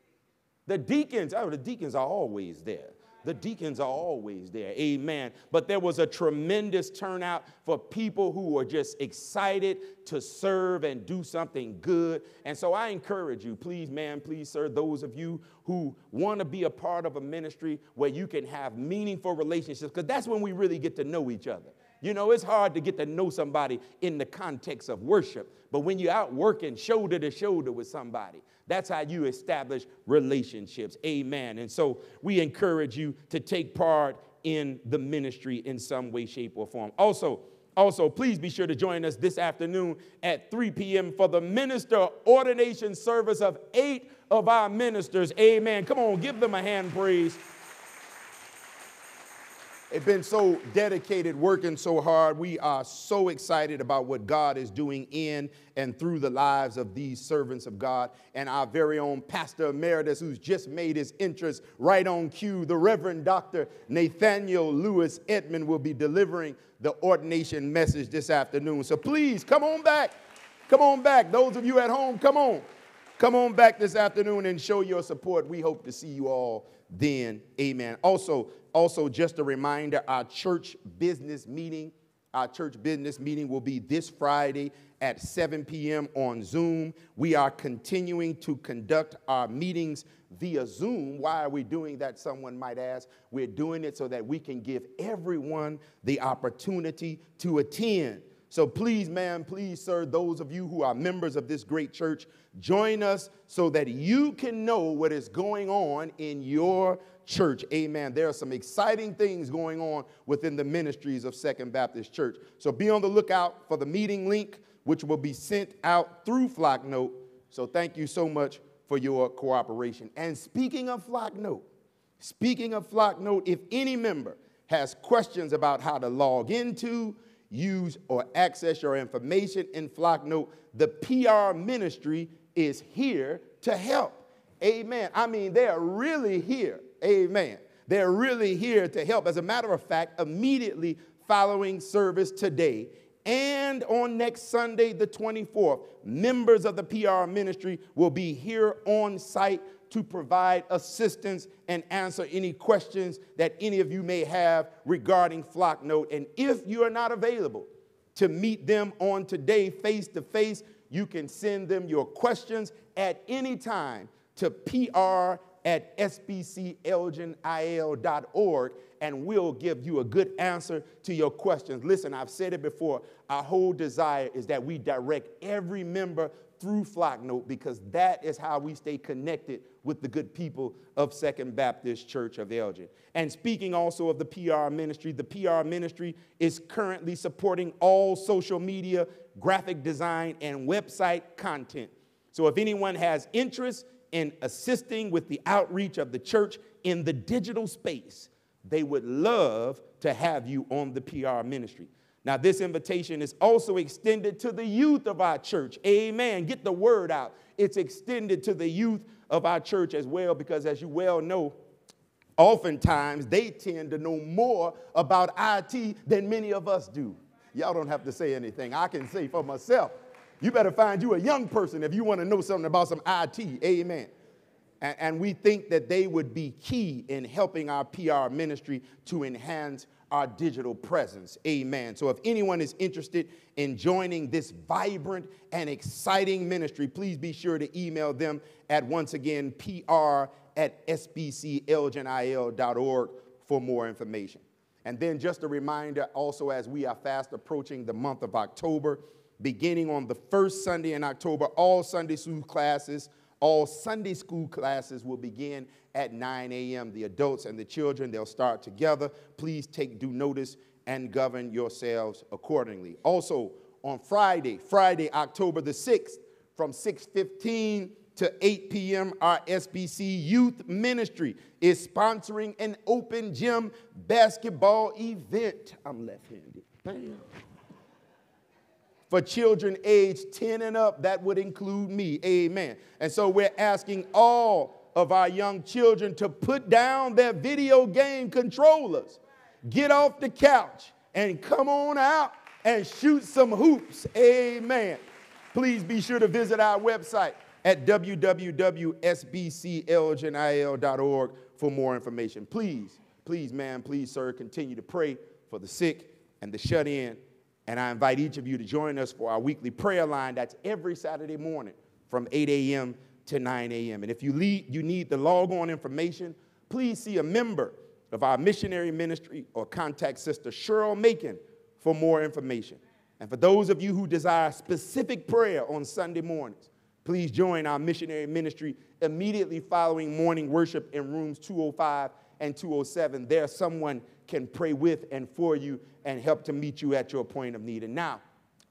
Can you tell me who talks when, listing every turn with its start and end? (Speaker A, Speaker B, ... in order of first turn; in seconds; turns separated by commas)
Speaker A: 0.7-47.4, Speaker A: 49.9-70.1, Speaker A: 70.7-72.6, Speaker A: 73.2-121.6, Speaker A: 122.2-211.6, Speaker A: 212.4-224.1, Speaker A: 224.8-277.2, Speaker A: 279.1-295.0, Speaker A: 295.5-338.2